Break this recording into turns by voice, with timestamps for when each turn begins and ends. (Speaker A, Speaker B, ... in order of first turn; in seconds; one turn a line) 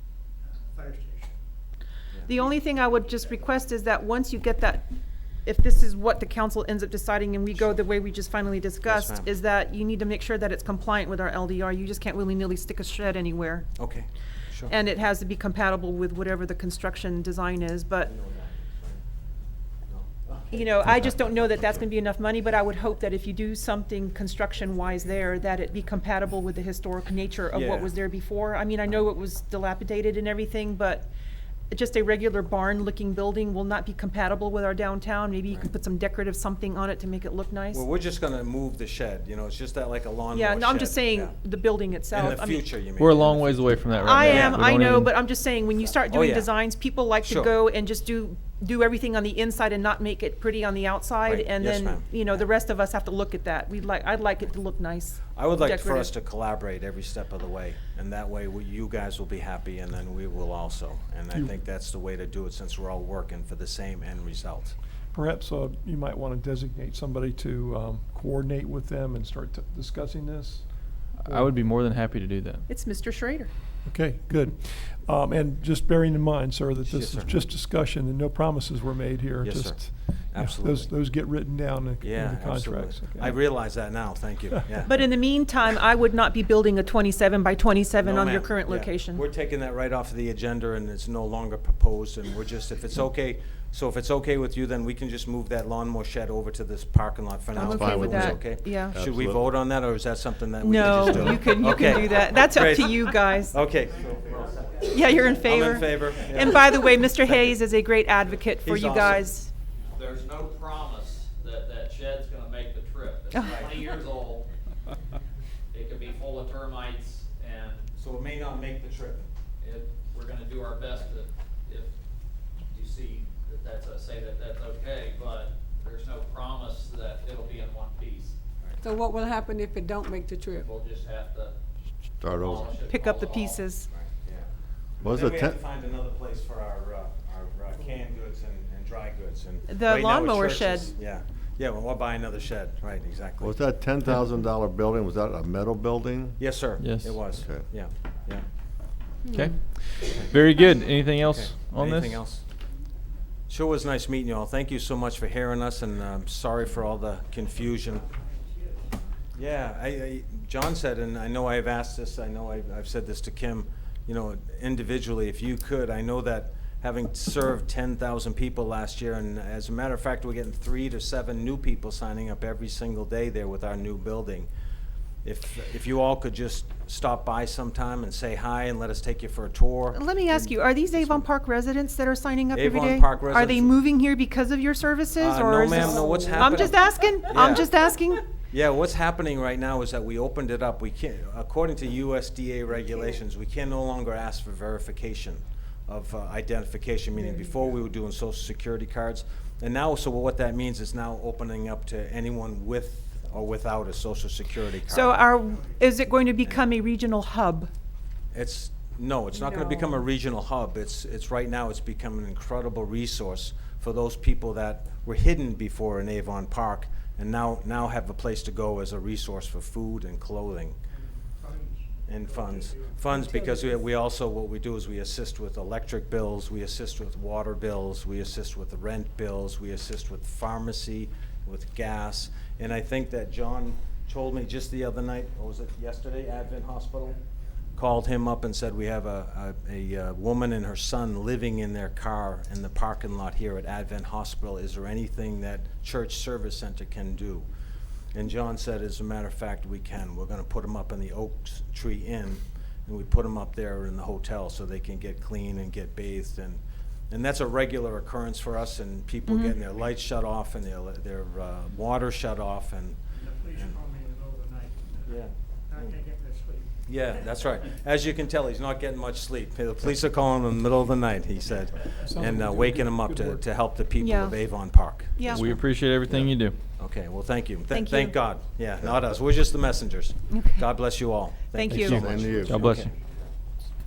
Speaker A: 0.4-1.4
Speaker B: 2.2-4.9
Speaker A: 2.4-3.4
Speaker B: 5.4-13.8
Speaker C: 8.9-9.3
Speaker C: 13.8-14.7
Speaker B: 14.7-18.1
Speaker C: 18.1-19.0
Speaker C: 19.9-20.6
Speaker B: 20.5-31.1
Speaker C: 27.5-27.9
Speaker B: 31.7-37.8
Speaker C: 37.7-41.3
Speaker B: 40.3-42.7
Speaker C: 42.1-44.8
Speaker D: 43.0-45.1
Speaker B: 44.0-56.1
Speaker C: 45.8-46.5
Speaker C: 47.2-47.5
Speaker C: 51.2-52.4
Speaker C: 55.3-64.8
Speaker E: 65.1-71.5
Speaker D: 71.2-72.6
Speaker B: 72.7-73.5
Speaker E: 73.8-83.5
Speaker C: 76.8-77.3
Speaker C: 79.4-80.9
Speaker C: 82.0-84.9
Speaker B: 84.8-89.2
Speaker C: 88.0-107.5
Speaker B: 97.5-98.9
Speaker F: 97.6-99.6
Speaker B: 100.6-103.6
Speaker F: 100.8-101.8
Speaker A: 103.8-105.4
Speaker B: 104.8-109.5
Speaker C: 108.6-109.3
Speaker G: 109.9-114.5
Speaker B: 113.3-113.7
Speaker G: 115.7-117.9
Speaker C: 118.0-119.3
Speaker G: 119.6-121.9
Speaker G: 122.7-128.3
Speaker H: 128.8-130.6
Speaker G: 130.6-131.5
Speaker F: 132.2-132.7
Speaker G: 132.3-133.6
Speaker B: 132.9-133.9
Speaker C: 133.9-134.5
Speaker F: 135.0-135.6
Speaker C: 135.0-143.6
Speaker B: 139.7-140.9
Speaker F: 143.4-146.4
Speaker C: 146.4-148.4
Speaker D: 146.8-147.1
Speaker F: 147.4-147.6
Speaker B: 149.3-149.6
Speaker D: 149.3-152.2
Speaker C: 151.2-152.4
Speaker C: 153.5-158.1
Speaker A: 157.4-159.0
Speaker C: 159.3-174.5
Speaker C: 175.2-181.3
Speaker B: 179.9-188.2
Speaker C: 182.5-183.8
Speaker C: 185.2-187.7
Speaker C: 188.5-205.3
Speaker B: 204.8-207.7
Speaker A: 205.4-205.8
Speaker C: 208.3-220.8
Speaker A: 220.9-223.1
Speaker C: 222.1-237.2
Speaker H: 223.2-223.6
Speaker C: 237.8-247.4
Speaker C: 248.1-263.0
Speaker B: 259.3-259.6
Speaker A: 263.1-267.4
Speaker C: 263.5-263.8
Speaker C: 265.1-266.0
Speaker C: 266.8-275.4
Speaker E: 272.0-273.4
Speaker B: 273.9-274.4
Speaker B: 275.1-275.5
Speaker D: 275.3-276.6
Speaker C: 276.8-282.6
Speaker B: 277.7-278.2
Speaker B: 280.3-280.7
Speaker B: 281.5-282.0
Speaker F: 281.8-282.8
Speaker D: 281.9-282.9
Speaker A: 282.2-283.0